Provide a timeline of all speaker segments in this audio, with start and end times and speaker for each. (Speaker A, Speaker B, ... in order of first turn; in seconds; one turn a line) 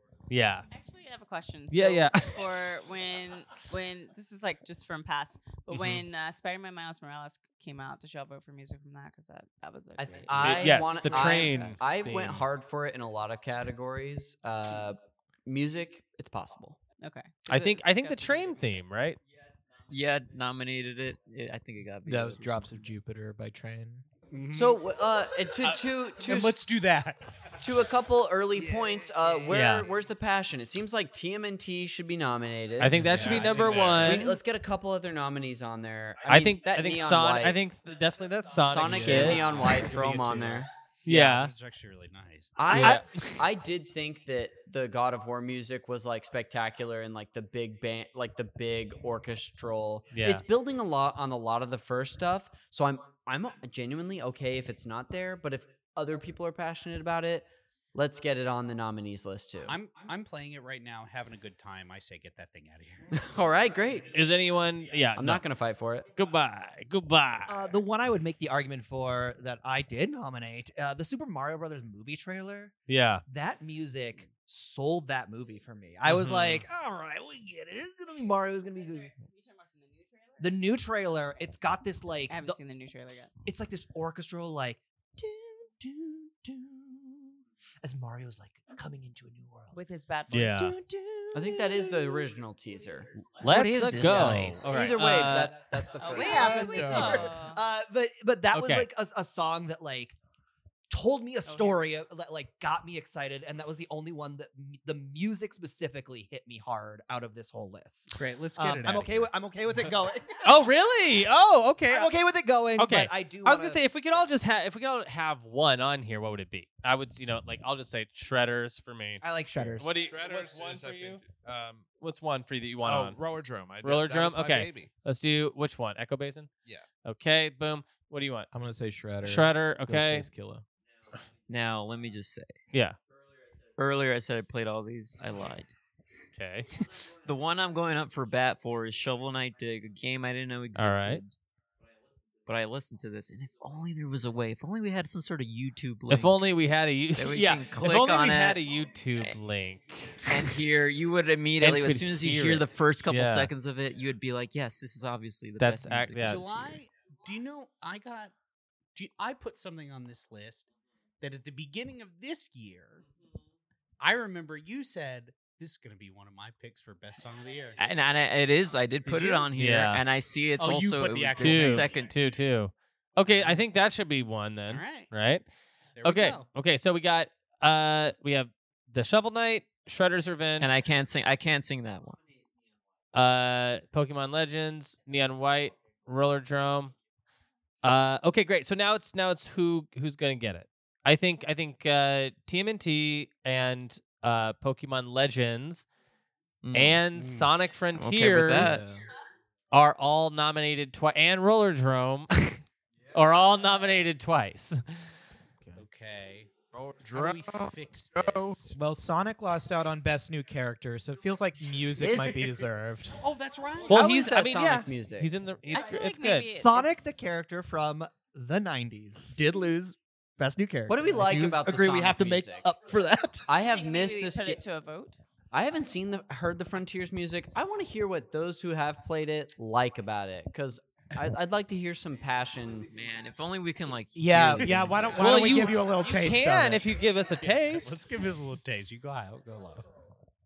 Speaker A: 0.3-0.7
Speaker B: 0.7-10.9
Speaker A: 1.7-2.4
Speaker A: 5.7-6.0
Speaker C: 10.0-16.8
Speaker A: 10.4-12.4
Speaker B: 17.0-18.6
Speaker A: 17.4-19.2
Speaker D: 19.9-22.9
Speaker E: 22.0-24.1
Speaker F: 24.3-24.8
Speaker C: 24.5-26.6
Speaker F: 26.1-27.2
Speaker C: 27.6-37.6
Speaker G: 28.6-29.4
Speaker A: 29.5-29.9
Speaker A: 32.8-34.3
Speaker E: 33.0-33.5
Speaker F: 33.1-34.3
Speaker G: 33.5-34.2
Speaker A: 36.2-39.8
Speaker C: 38.6-41.3
Speaker E: 38.8-40.5
Speaker F: 39.1-42.6
Speaker A: 41.0-41.5
Speaker C: 42.5-59.8
Speaker H: 42.6-43.0
Speaker A: 42.7-43.4
Speaker A: 50.1-50.4
Speaker F: 59.6-63.1
Speaker C: 63.1-64.2
Speaker A: 64.1-65.4
Speaker C: 65.2-66.1
Speaker A: 66.1-67.5
Speaker H: 67.5-72.7
Speaker A: 72.9-73.2
Speaker H: 73.2-79.1
Speaker A: 76.0-76.6
Speaker B: 79.2-80.6
Speaker H: 80.4-82.6
Speaker B: 82.3-83.3
Speaker H: 83.4-89.8
Speaker B: 89.7-90.7
Speaker A: 90.3-90.7
Speaker H: 90.5-92.3
Speaker C: 91.3-93.1
Speaker A: 93.4-95.6
Speaker D: 93.4-95.0
Speaker C: 94.0-97.2
Speaker B: 96.0-97.6
Speaker H: 96.1-100.2
Speaker G: 96.6-97.3
Speaker A: 98.5-98.9
Speaker H: 100.9-110.4
Speaker B: 101.5-101.8
Speaker F: 108.1-109.3
Speaker A: 110.4-112.2
Speaker H: 111.9-114.2
Speaker A: 112.8-119.2
Speaker H: 119.2-119.9
Speaker A: 119.8-121.2
Speaker G: 119.8-121.9
Speaker A: 122.0-123.2
Speaker G: 122.8-124.9
Speaker A: 123.8-126.5
Speaker A: 127.0-128.5
Speaker E: 128.5-130.6
Speaker A: 129.2-130.3
Speaker D: 131.5-132.5
Speaker D: 133.8-135.8
Speaker A: 136.4-136.8
Speaker D: 137.2-141.3
Speaker A: 140.8-141.2
Speaker D: 142.4-146.4
Speaker A: 146.1-150.5
Speaker D: 147.2-148.6
Speaker D: 150.2-156.8
Speaker A: 151.6-153.5
Speaker A: 155.6-156.4
Speaker F: 156.2-158.3
Speaker F: 158.9-160.7
Speaker F: 161.2-163.0
Speaker F: 164.0-167.8
Speaker D: 167.8-172.1
Speaker F: 169.0-169.5
Speaker A: 169.5-170.0
Speaker F: 170.6-171.9
Speaker A: 171.4-175.4
Speaker F: 173.3-173.6
Speaker F: 174.7-175.1
Speaker F: 175.9-176.5
Speaker A: 176.0-180.7
Speaker D: 180.6-182.2
Speaker A: 183.1-186.9
Speaker A: 187.8-195.8
Speaker D: 196.6-197.0
Speaker A: 196.7-198.8
Speaker F: 197.1-197.5
Speaker D: 197.9-198.8
Speaker E: 198.6-199.0
Speaker A: 199.7-202.6
Speaker A: 203.1-204.8
Speaker F: 205.8-206.5
Speaker G: 206.7-208.6
Speaker F: 207.1-208.7
Speaker E: 208.7-213.2
Speaker C: 212.0-212.4
Speaker F: 212.0-212.6
Speaker F: 213.2-214.2
Speaker A: 213.9-216.6
Speaker C: 213.9-215.3
Speaker B: 215.7-217.2
Speaker H: 216.5-223.5
Speaker C: 220.9-222.7
Speaker C: 223.5-224.6
Speaker B: 223.5-225.2
Speaker C: 225.5-232.9
Speaker D: 232.9-235.2
Speaker E: 234.1-236.8
Speaker F: 234.5-236.2
Speaker A: 235.2-238.0
Speaker F: 237.4-239.8